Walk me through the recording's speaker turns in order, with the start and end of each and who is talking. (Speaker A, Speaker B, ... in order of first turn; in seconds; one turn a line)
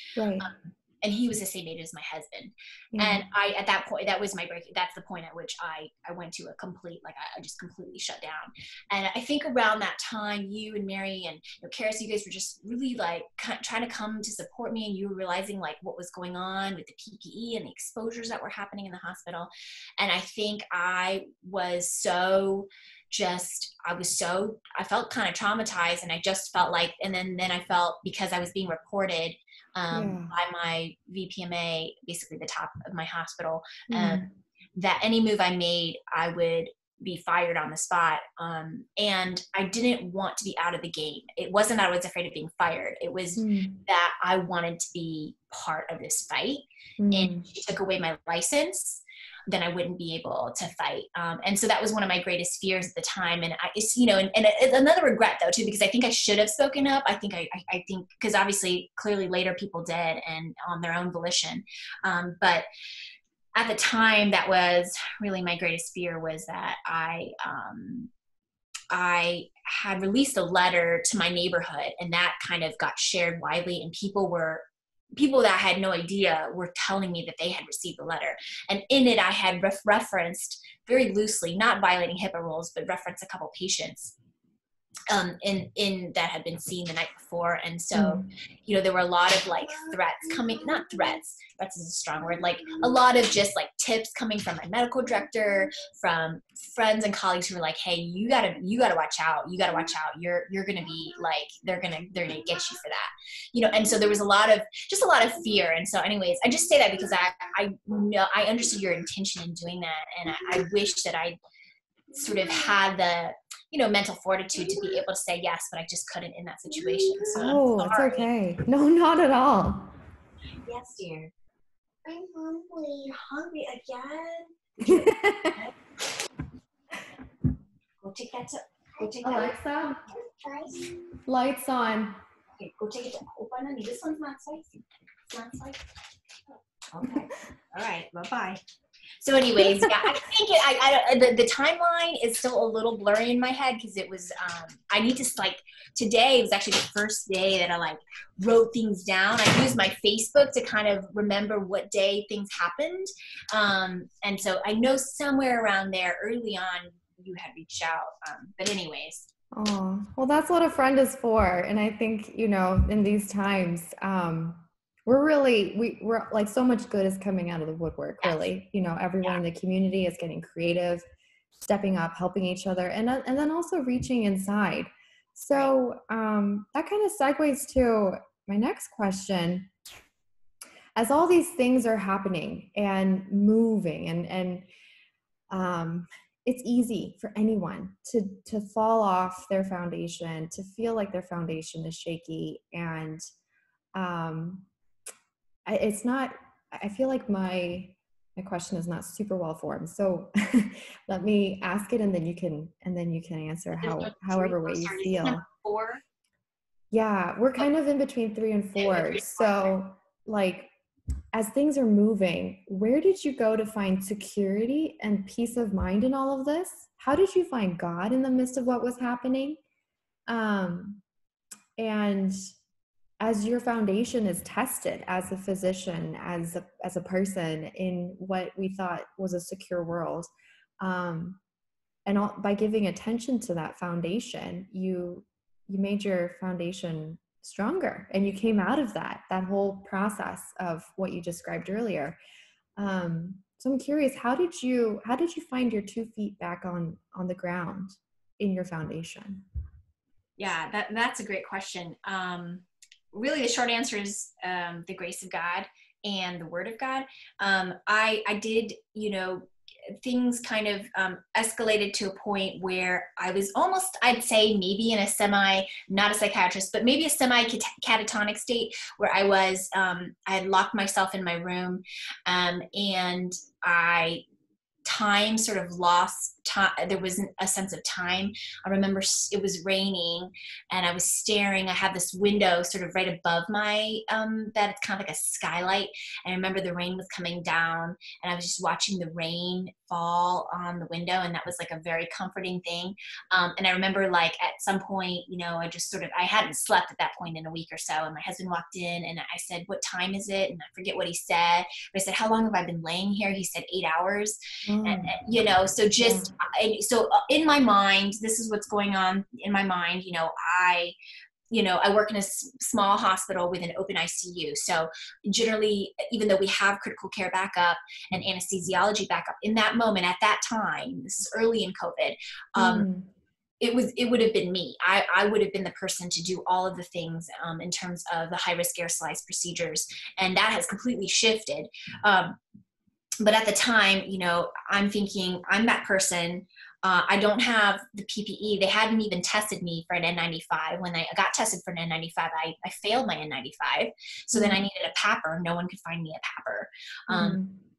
Speaker A: 0.2-0.5
Speaker B: 0.4-34.2
Speaker A: 2.9-3.2
Speaker A: 29.9-30.3
Speaker A: 33.9-34.3
Speaker B: 34.8-62.7
Speaker A: 43.4-43.8
Speaker A: 47.0-47.5
Speaker B: 63.5-68.1
Speaker B: 68.9-84.2
Speaker B: 85.1-111.4
Speaker A: 87.9-88.3
Speaker C: 112.1-112.8
Speaker B: 112.2-118.3
Speaker C: 114.7-115.0
Speaker C: 116.7-117.5
Speaker A: 117.3-119.9
Speaker B: 120.7-121.3
Speaker C: 122.0-123.1
Speaker B: 123.1-125.7
Speaker A: 124.9-125.6
Speaker B: 128.0-129.6
Speaker C: 129.0-129.5
Speaker A: 129.2-130.0
Speaker C: 130.1-131.0
Speaker A: 131.3-132.2
Speaker B: 132.6-135.8
Speaker B: 136.9-138.6
Speaker B: 139.2-159.3
Speaker A: 139.7-140.1
Speaker A: 159.5-171.1
Speaker B: 168.2-168.5
Speaker A: 171.6-179.7
Speaker A: 181.0-184.7
Speaker A: 185.5-193.2
Speaker A: 193.9-194.7
Speaker A: 195.7-205.4
Speaker B: 203.8-206.0
Speaker A: 206.9-210.7
Speaker B: 208.8-209.7
Speaker A: 211.3-219.6
Speaker A: 220.3-221.0
Speaker A: 221.8-222.5
Speaker A: 223.2-231.4
Speaker A: 232.1-242.2
Speaker A: 242.8-249.4
Speaker B: 250.4-259.5
Speaker B: 260.0-274.2
Speaker B: 274.8-311.0
Speaker A: 304.7-305.2
Speaker A: 306.0-306.3
Speaker B: 311.5-322.9
Speaker A: 322.6-323.1
Speaker B: 323.6-332.4
Speaker B: 333.2-347.4
Speaker A: 347.1-347.6